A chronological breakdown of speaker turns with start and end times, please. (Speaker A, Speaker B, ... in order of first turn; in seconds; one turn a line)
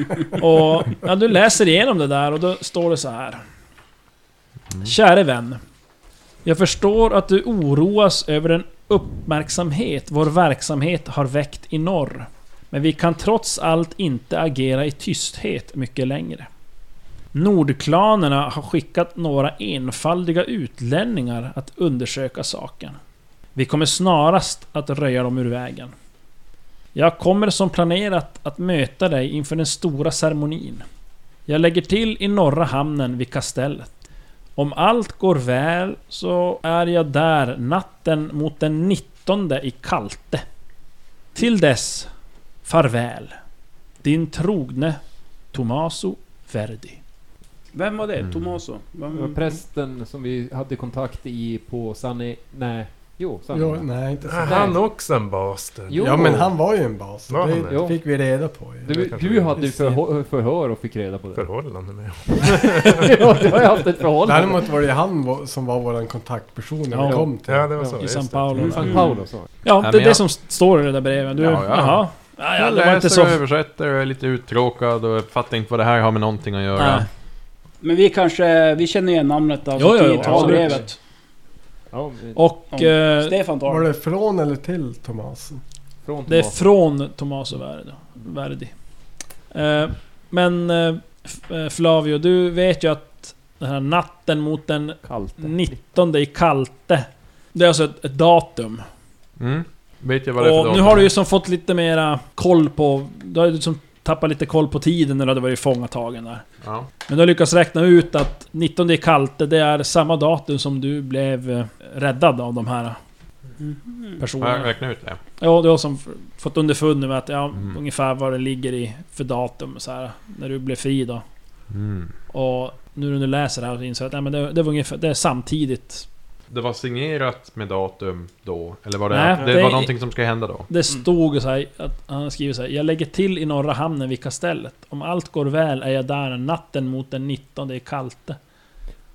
Speaker A: 0.4-3.4
Speaker A: 4.8-5.6
Speaker A: 6.4-16.5
Speaker A: 17.3-23.0
Speaker A: 23.5-25.9
Speaker A: 26.9-30.8
Speaker A: 31.5-33.9
Speaker A: 34.5-40.4
Speaker A: 41.3-42.1
Speaker A: 42.6-43.3
Speaker A: 44.0-45.0
Speaker A: 45.5-47.0
Speaker B: 47.7-49.5
Speaker C: 48.2-48.6
Speaker D: 49.1-53.9
Speaker E: 53.5-54.8
Speaker F: 54.2-56.3
Speaker D: 54.4-54.8
Speaker D: 55.9-56.5
Speaker E: 56.0-60.0
Speaker F: 57.3-57.8
Speaker D: 57.7-58.0
Speaker D: 58.8-61.5
Speaker F: 58.9-59.6
Speaker F: 61.3-63.1
Speaker D: 62.5-64.7
Speaker E: 64.2-67.7
Speaker A: 66.9-67.2
Speaker D: 67.0-69.6
Speaker F: 67.4-69.0
Speaker A: 68.0-69.1
Speaker A: 69.6-73.4
Speaker C: 69.6-70.3
Speaker C: 71.3-77.0
Speaker A: 76.8-77.1
Speaker B: 77.8-80.9
Speaker A: 79.8-80.9
Speaker D: 80.2-80.9
Speaker D: 81.9-82.5
Speaker A: 82.3-83.3
Speaker B: 82.7-83.8
Speaker E: 83.7-85.6
Speaker D: 86.0-86.6
Speaker A: 86.3-88.7
Speaker A: 89.5-98.8
Speaker D: 95.0-95.8
Speaker C: 99.4-101.1
Speaker A: 100.4-106.4
Speaker C: 106.6-106.9
Speaker A: 107.1-113.0
Speaker B: 113.6-114.2
Speaker A: 114.2-114.7
Speaker C: 114.4-115.2
Speaker A: 115.4-121.2
Speaker C: 121.7-122.1
Speaker A: 122.3-126.1
Speaker C: 126.5-130.7
Speaker A: 129.1-129.9
Speaker D: 129.4-129.7
Speaker A: 130.7-138.4